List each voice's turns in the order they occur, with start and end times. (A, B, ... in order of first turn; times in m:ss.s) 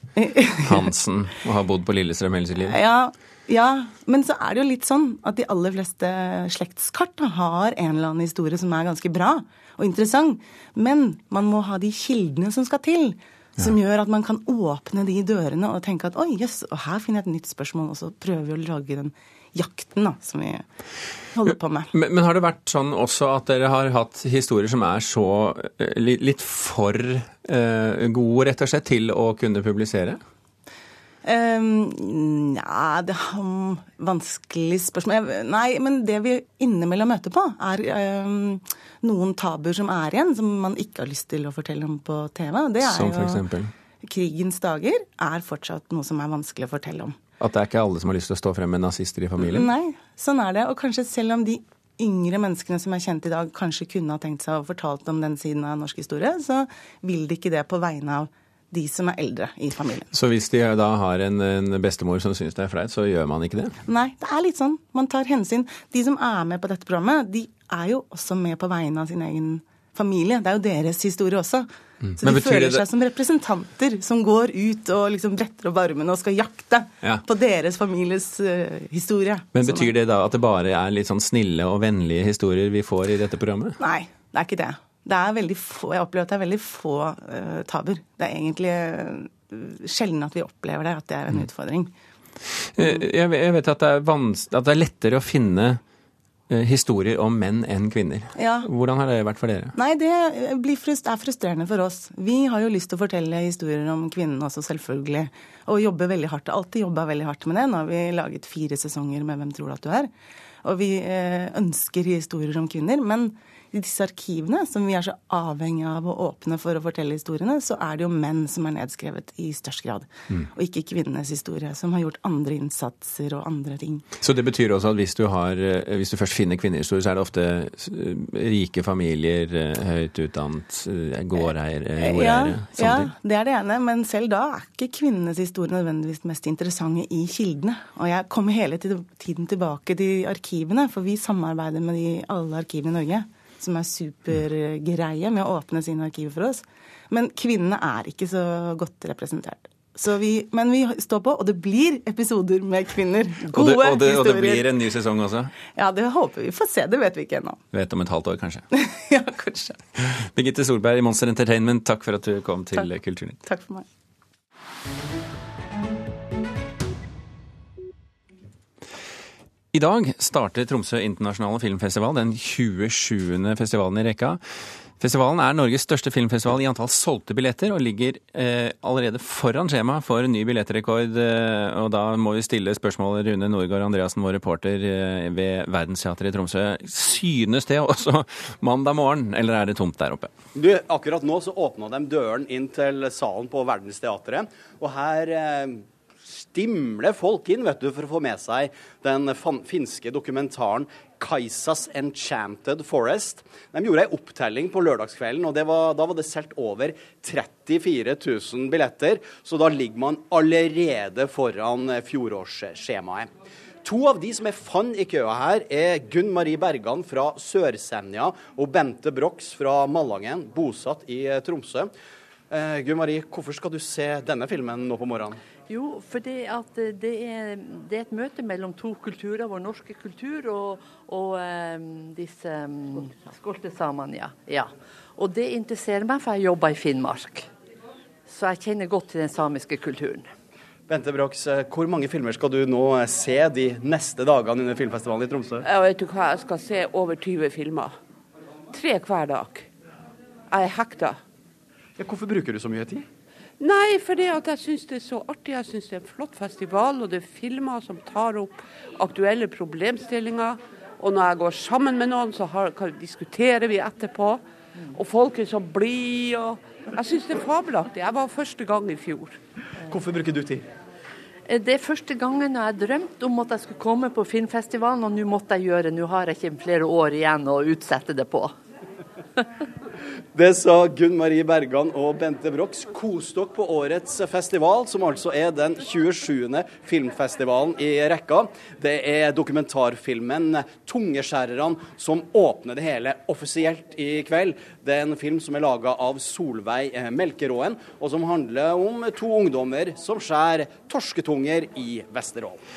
0:00.2-0:00.9 A
0:00.6-0:02.8 B
0:02.6-0:20.6 A
0:21.4-0:21.9 A
0:21.9-0:30.2 B
0:31.2-0:43.4 A
0:42.8-0:43.7 B
0:44.0-0:47.2 A
0:47.4-0:49.7 B
0:49.4-1:00.1 A
1:00.1-1:03.8 B
1:03.9-1:11.7 A
1:12.0-1:12.8 B
1:12.2-1:19.9 A
1:19.5-1:23.8 B
1:23.8-1:31.9 A
1:32.8-1:35.8 B
1:36.5-1:39.8 B
1:38.4-1:38.7 A
1:39.8-1:50.1 A
1:50.6-2:04.1 A
2:04.2-2:13.1 B
2:12.0-2:34.7 A
2:33.4-2:35.5 B
2:35.7-2:37.6 A
2:37.7-2:38.7 B
2:38.7-2:39.8 A
2:40.0-2:43.4 B
2:43.4-2:43.8 A
2:49.7-2:54.4 B
2:55.0-3:10.3 B
3:10.6-3:33.3 C
3:33.8-3:41.9 C
3:42.5-3:45.4 C
3:45.7-3:57.5 D
3:58.3-4:00.3 D
4:00.9-4:05.6 C
4:05.6-4:07.9 E
4:08.7-4:09.7 E
4:10.5-4:11.2 E
4:12.0-4:13.1 C
4:13.6-4:24.4 E
4:24.9-4:29.4 E
4:29.9-4:30.7 C
4:31.5-4:38.5 D
4:40.4-5:02.6 C